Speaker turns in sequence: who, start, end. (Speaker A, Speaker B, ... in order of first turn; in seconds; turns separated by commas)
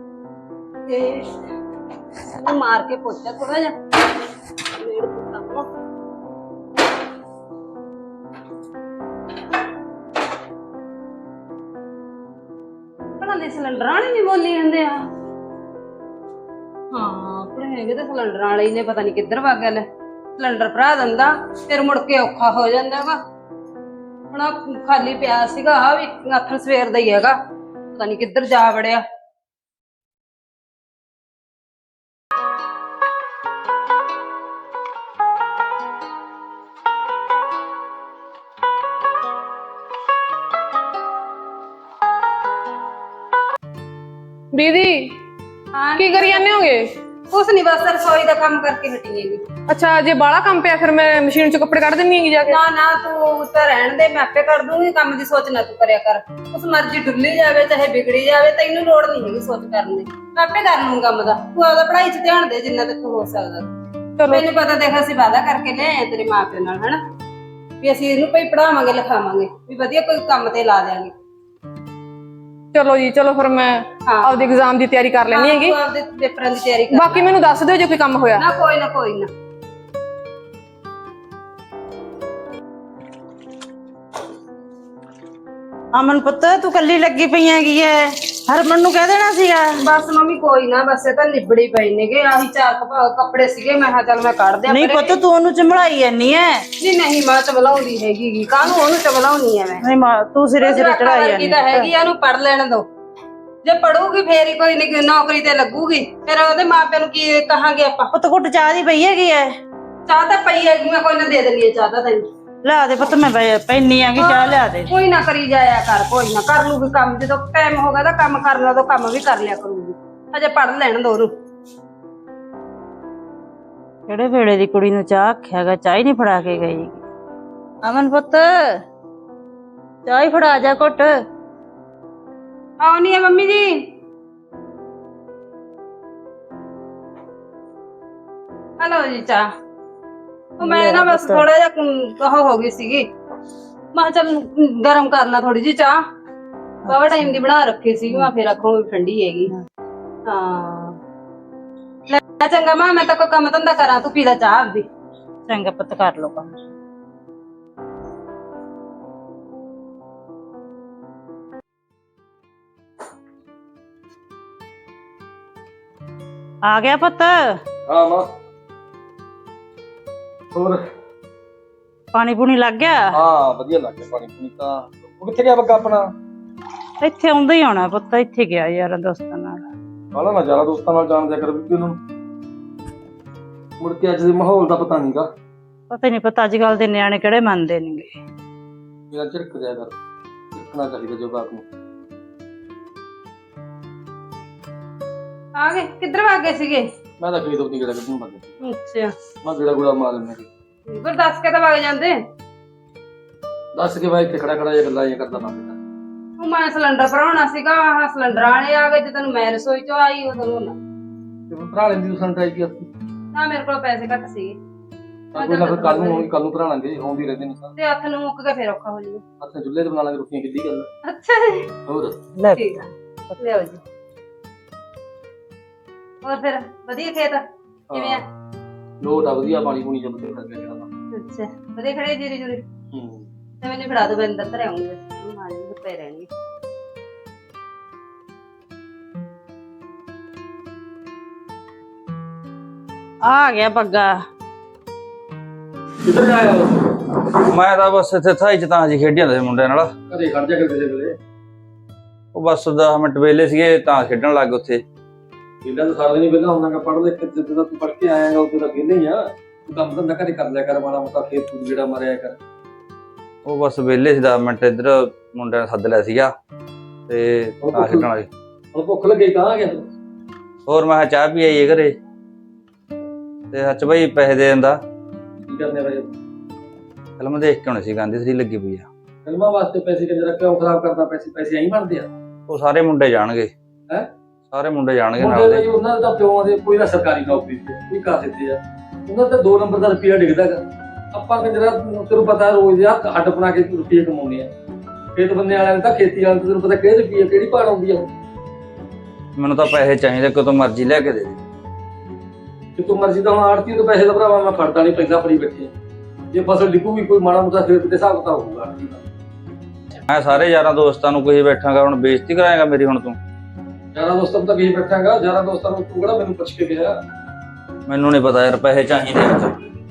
Speaker A: 0.9-1.5, Speaker A: 2.4-3.8, Speaker A: 4.8-5.7, Speaker A: 13.2-15.1, Speaker A: 16.9-19.9, Speaker A: 20.4-23.2, Speaker A: 24.3-27.4, Speaker A: 27.9-29.0, Speaker B: 44.5-45.1, Speaker A: 45.7-46.5, Speaker B: 46.0-46.8, Speaker A: 47.3-49.4, Speaker B: 49.7-52.6, Speaker A: 52.5-63.7, Speaker B: 64.2-64.4, Speaker A: 64.3-67.0, Speaker A: 67.8-71.1, Speaker B: 72.7-75.8, Speaker A: 74.1-74.6, Speaker A: 75.3-77.3, Speaker B: 76.9-78.4, Speaker A: 78.4-79.3, Speaker C: 85.9-89.8, Speaker A: 89.8-95.2, Speaker C: 94.7-96.7, Speaker A: 96.8-99.8, Speaker C: 99.8-101.9, Speaker A: 100.6-102.9, Speaker A: 103.6-108.1, Speaker C: 108.1-109.6, Speaker A: 110.1-112.3, Speaker C: 112.6-114.9, Speaker A: 114.2-121.3, Speaker C: 124.1-127.0, Speaker C: 127.8-128.8, Speaker C: 130.1-131.1, Speaker A: 132.8-133.7, Speaker A: 138.8-139.5, Speaker C: 140.6-141.4, Speaker A: 140.6-143.1, Speaker A: 143.9-146.0, Speaker A: 146.9-149.5, Speaker A: 150.2-151.0, Speaker A: 152.1-154.9, Speaker C: 155.5-156.6, Speaker C: 166.6-167.4, Speaker D: 167.9-168.3, Speaker D: 170.5-170.8, Speaker C: 172.1-173.1, Speaker D: 173.2-176.1, Speaker C: 177.0-179.7, Speaker D: 180.1-182.0, Speaker D: 183.8-185.3, Speaker C: 185.9-188.1, Speaker D: 189.1-189.9, Speaker D: 190.6-191.7, Speaker A: 195.6-196.9, Speaker D: 197.2-198.5, Speaker A: 198.6-199.1, Speaker D: 199.4-200.5, Speaker A: 200.9-202.2, Speaker D: 203.8-205.8, Speaker A: 206.4-210.8, Speaker D: 211.5-212.9, Speaker A: 213.3-214.6, Speaker D: 215.3-217.7, Speaker A: 215.4-216.3, Speaker A: 217.8-219.2, Speaker D: 219.4-220.9, Speaker A: 221.1-221.7, Speaker D: 221.9-222.2, Speaker C: 222.4-222.8, Speaker A: 222.5-222.9, Speaker C: 223.3-223.8, Speaker A: 223.4-223.7, Speaker A: 226.2-228.2, Speaker D: 227.9-228.2, Speaker D: 229.0-230.9, Speaker A: 231.1-232.6, Speaker D: 232.9-233.3, Speaker A: 233.6-236.3, Speaker C: 243.2-244.2, Speaker D: 246.0-247.0, Speaker E: 247.5-249.9, Speaker D: 250.1-251.2, Speaker E: 252.3-254.8, Speaker D: 255.6-262.4, Speaker E: 263.4-266.3, Speaker E: 267.1-268.3, Speaker D: 267.6-268.1, Speaker D: 268.7-269.9, Speaker E: 270.7-271.9, Speaker E: 273.5-274.8, Speaker D: 275.4-276.1, Speaker E: 277.2-278.9, Speaker D: 279.2-282.1, Speaker E: 282.5-283.5, Speaker E: 284.5-285.6, Speaker D: 285.2-294.5, Speaker D: 295.2-298.1, Speaker E: 299.4-301.4, Speaker D: 302.8-305.7, Speaker D: 306.3-309.0, Speaker E: 310.1-313.2, Speaker D: 313.9-317.0, Speaker E: 317.9-319.6